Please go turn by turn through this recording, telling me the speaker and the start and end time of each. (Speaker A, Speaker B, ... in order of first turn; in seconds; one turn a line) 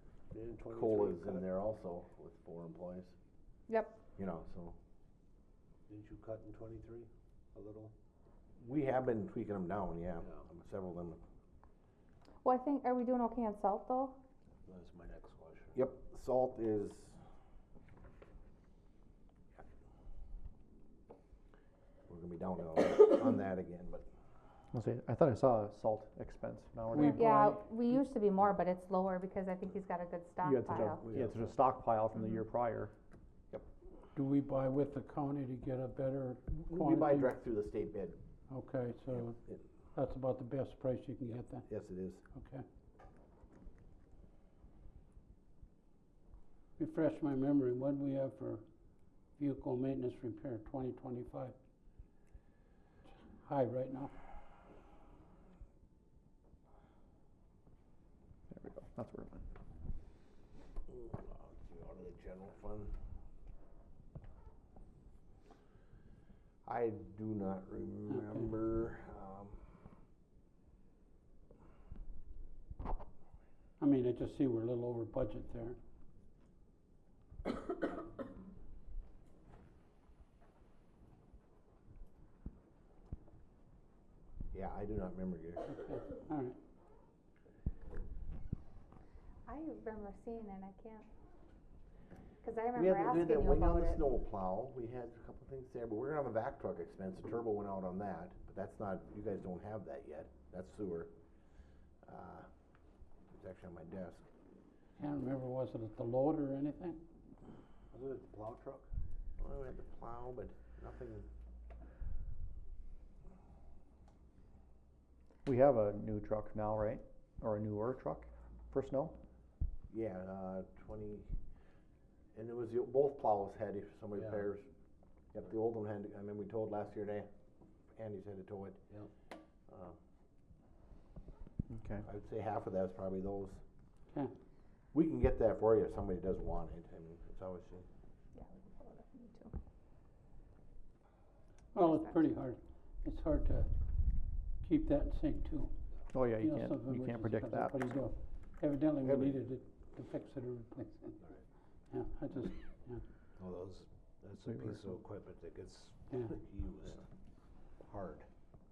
Speaker A: 0.3-1.6
Speaker B: 0.7-3.1
Speaker C: 3.7-4.0
Speaker B: 4.2-4.8
Speaker A: 5.9-7.9
Speaker B: 8.6-11.2
Speaker C: 12.4-14.2
Speaker A: 14.7-15.8
Speaker B: 15.7-17.2
Speaker B: 22.1-24.1
Speaker D: 24.7-27.2
Speaker E: 26.9-27.7
Speaker C: 26.9-31.1
Speaker D: 30.4-32.9
Speaker B: 30.7-31.6
Speaker E: 34.1-37.3
Speaker B: 36.6-38.2
Speaker E: 38.5-39.4
Speaker E: 39.9-41.6
Speaker B: 41.3-42.2
Speaker E: 42.3-42.6
Speaker E: 46.8-48.6
Speaker E: 49.4-51.5
Speaker E: 53.3-54.1
Speaker D: 58.5-59.5
Speaker B: 60.9-62.9
Speaker B: 66.6-69.6
Speaker E: 68.1-68.5
Speaker E: 73.8-75.8
Speaker B: 84.5-85.7
Speaker E: 85.7-86.6
Speaker C: 89.5-91.1
Speaker C: 92.4-94.0
Speaker B: 92.7-101.1
Speaker B: 102.0-102.5
Speaker B: 103.3-104.2
Speaker E: 105.0-107.0
Speaker A: 107.9-108.9
Speaker B: 109.4-111.3
Speaker D: 115.4-119.2
Speaker B: 119.9-121.3
Speaker B: 122.3-124.7
Speaker A: 124.1-124.5
Speaker B: 125.3-127.3
Speaker B: 127.9-128.8
Speaker B: 129.7-129.9
Speaker D: 131.7-132.0
Speaker B: 132.0-133.6
Speaker B: 134.9-137.8
Speaker C: 138.3-139.5
Speaker E: 141.7-143.7
Speaker C: 141.8-142.1
Speaker E: 144.6-145.7
Speaker D: 146.1-148.1
Speaker E: 146.4-151.2
Speaker E: 151.9-153.0
Speaker A: 153.4-157.0
Speaker E: 156.1-156.4
Speaker A: 157.8-158.3